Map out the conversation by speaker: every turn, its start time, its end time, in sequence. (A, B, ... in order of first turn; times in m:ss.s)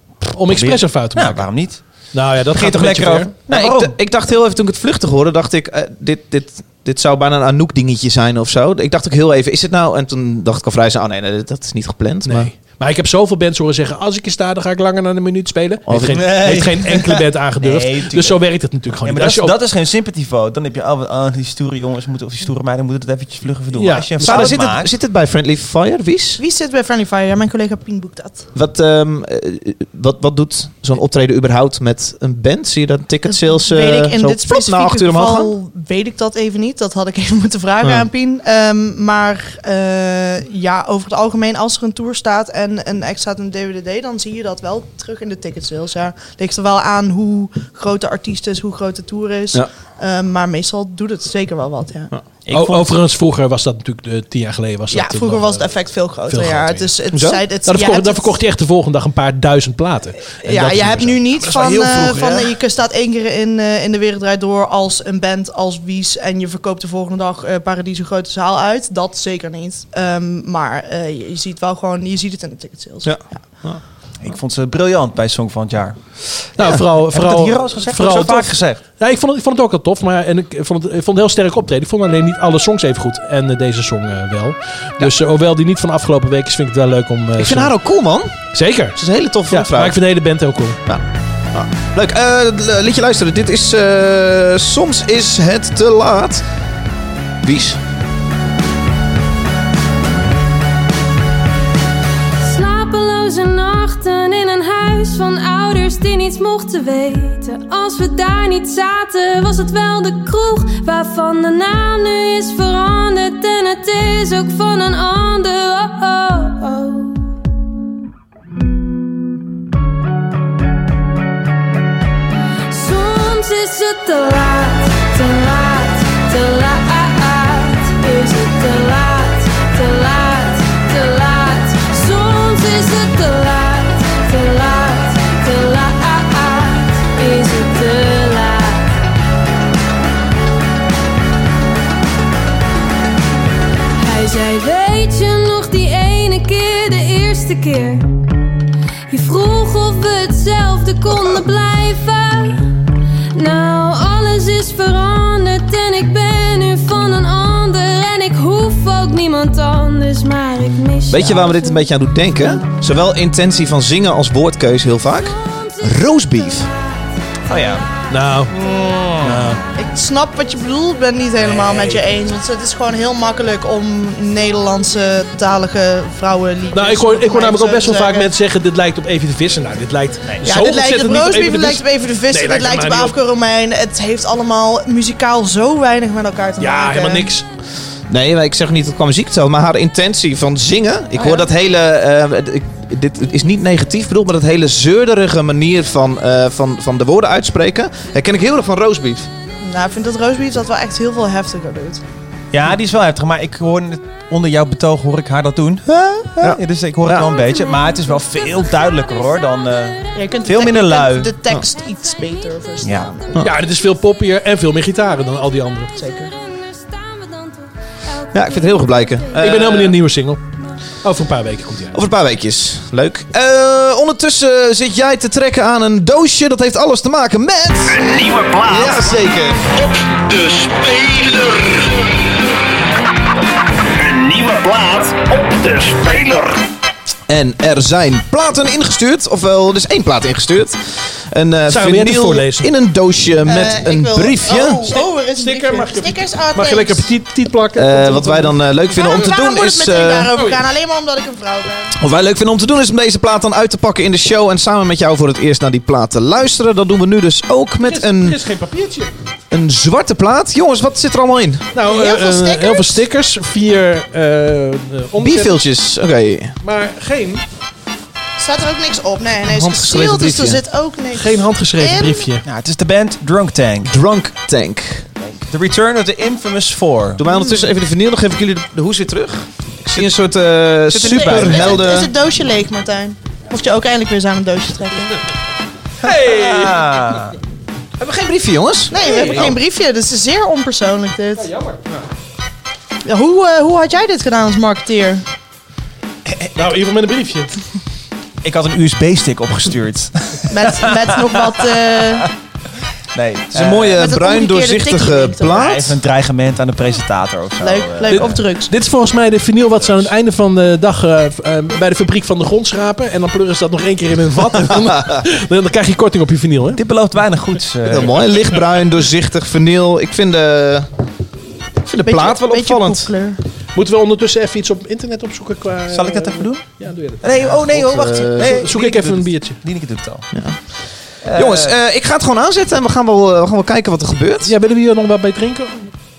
0:00.3-0:01.4 A
0:00.4-0:01.8 B
0:02.1-0:03.3 A
0:02.5-0:04.0 B
0:03.5-0:12.5 C
0:12.2-0:19.6 A
0:15.9-0:16.5 C
0:16.0-0:18.4 B
0:19.0-0:24.9 B
0:23.7-0:24.6 A
0:24.2-0:26.4 C
0:26.4-0:28.5 D
0:28.5-0:35.5 C
0:33.3-0:52.1 D
0:52.4-0:52.9 B
0:52.5-0:55.7 A
0:54.9-0:58.3 D
0:56.3-0:56.9 A
0:57.1-0:57.4 C
0:57.6-1:01.2 A
1:00.4-1:13.1 D
1:01.4-1:02.5 C
1:13.0-1:13.8 C
1:14.2-1:16.0 B
1:16.6-1:27.7 A
1:16.7-1:18.8 B
1:27.4-1:28.3 C
1:28.5-1:30.8 A
1:29.0-1:30.0 C
1:30.9-1:36.4 C
1:37.4-1:37.8 C
1:42.4-1:57.2 E
2:02.7-2:19.0 E
2:24.0-2:28.2 E
2:29.1-2:32.7 E
2:33.3-2:41.9 E
2:41.1-2:46.7 C
2:47.5-2:47.8 B
2:48.1-2:48.5 A
2:48.5-2:49.5 B
2:49.2-2:49.6 A
2:49.8-2:58.3 D
2:56.7-3:03.1 A
3:00.4-3:07.3 D
3:06.6-3:07.4 A
3:08.1-3:19.3 C
3:19.6-3:22.0 D
3:22.5-3:31.3 B
3:26.4-3:27.3 C
3:30.1-3:33.3 D
3:32.8-3:33.1 B
3:33.4-3:35.9 A
3:36.0-3:36.3 D
3:36.0-3:37.7 E
3:38.2-3:39.2 E
3:38.3-3:39.9 C
3:39.4-3:40.4 A
3:41.0-3:42.0 A
3:41.9-3:48.1 C
3:47.9-3:49.1 F
3:48.6-3:49.7 C
3:49.8-3:52.0 F
3:53.8-3:56.6 F
3:57.3-4:04.9 C
4:01.7-4:02.7 A
4:03.4-4:07.1 D
4:04.9-4:08.6 A
4:07.8-4:10.3 C
4:08.9-4:11.9 D
4:12.0-4:18.4 C
4:17.8-4:19.1 A
4:19.5-4:21.6 C
4:21.7-4:25.6 A
4:21.8-4:23.0 D
4:25.2-4:26.5 C
4:26.6-4:27.4 A
4:28.4-4:32.3 D
4:29.5-4:30.6 C
4:31.1-4:32.4 A
4:32.4-4:34.0 B
4:33.8-4:35.1 C
4:35.3-4:37.3 B
4:37.2-4:42.1 C
4:40.9-4:41.8 B
4:40.9-4:45.2 D
4:46.0-4:47.4 B
4:46.0-4:46.9 A
4:48.0-4:49.6 C
4:48.9-4:51.5 D
4:49.0-4:49.4 A
4:51.4-4:51.8 A
4:53.0-4:55.2 D
4:56.2-4:56.6 B
4:56.5-4:57.5 A
4:58.4-5:02.3 B
5:00.5-5:02.3 D
5:03.1-5:04.0 B
5:03.5-5:06.0 C
5:03.9-5:05.8 D
5:05.5-5:08.4 B
5:07.6-5:08.7 D
5:08.1-5:16.8 A
5:09.8-5:10.1 B
5:16.7-5:18.3 B
5:17.8-5:20.9 C
5:21.8-5:23.1 C
5:22.0-5:23.4 D
5:23.7-5:27.3 A
5:25.9-5:26.6 B
5:27.2-5:30.3 B
5:27.7-5:28.6 C
5:28.3-5:29.6 A
5:31.2-5:31.8 B
5:31.3-5:34.5 C
5:34.4-5:35.9 A